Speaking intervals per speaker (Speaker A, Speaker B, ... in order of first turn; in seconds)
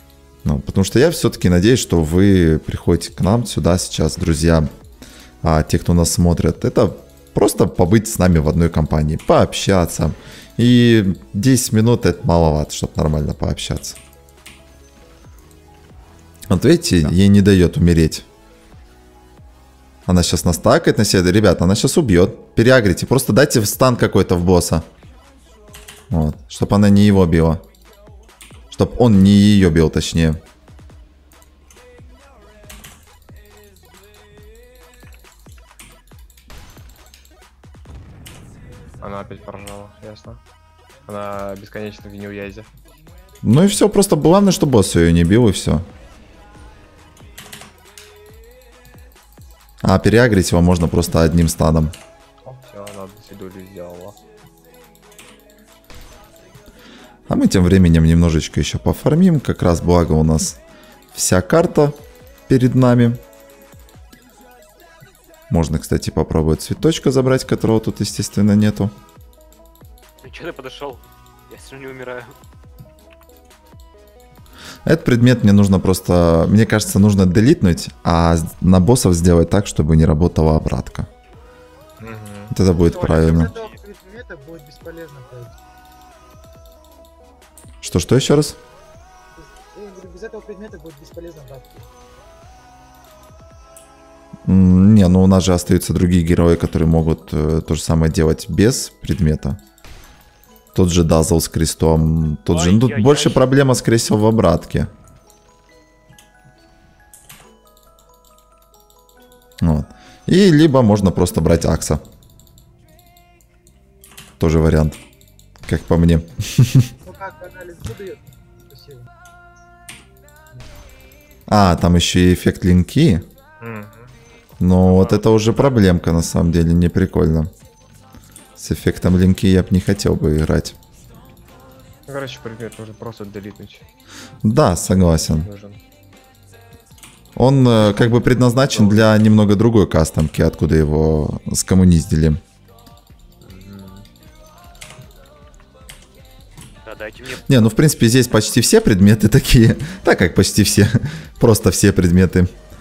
Speaker A: 0.4-4.7, 5.4-14.0, 16.5-18.2, 20.1-24.9, 26.1-27.6, 28.7-30.4, 43.4-45.9, 49.8-51.9, 57.3-60.6, 61.1-62.0, 62.5-63.2, 65.5-68.9, 74.8-81.1, 82.5-83.5, 87.8-88.6, 94.5-99.6, 100.7-104.9, 109.6-112.0, 114.4-115.0, 115.7-116.9, 121.5-123.2, 124.6-127.5, 128.6-130.8, 134.4-135.5, 137.3-142.4, 147.4-152.5
Speaker B: 39.0-40.4, 41.0-42.7, 52.4-54.2, 82.0-82.5, 123.6-124.2, 132.1-133.9, 134.8-135.8, 137.8-139.2, 143.4-144.1
Speaker C: 70.2-72.3, 82.9-83.8, 102.5-103.5, 124.8-125.9, 146.8-147.8
Speaker D: 82.7-85.5, 89.3-91.9, 117.0-119.1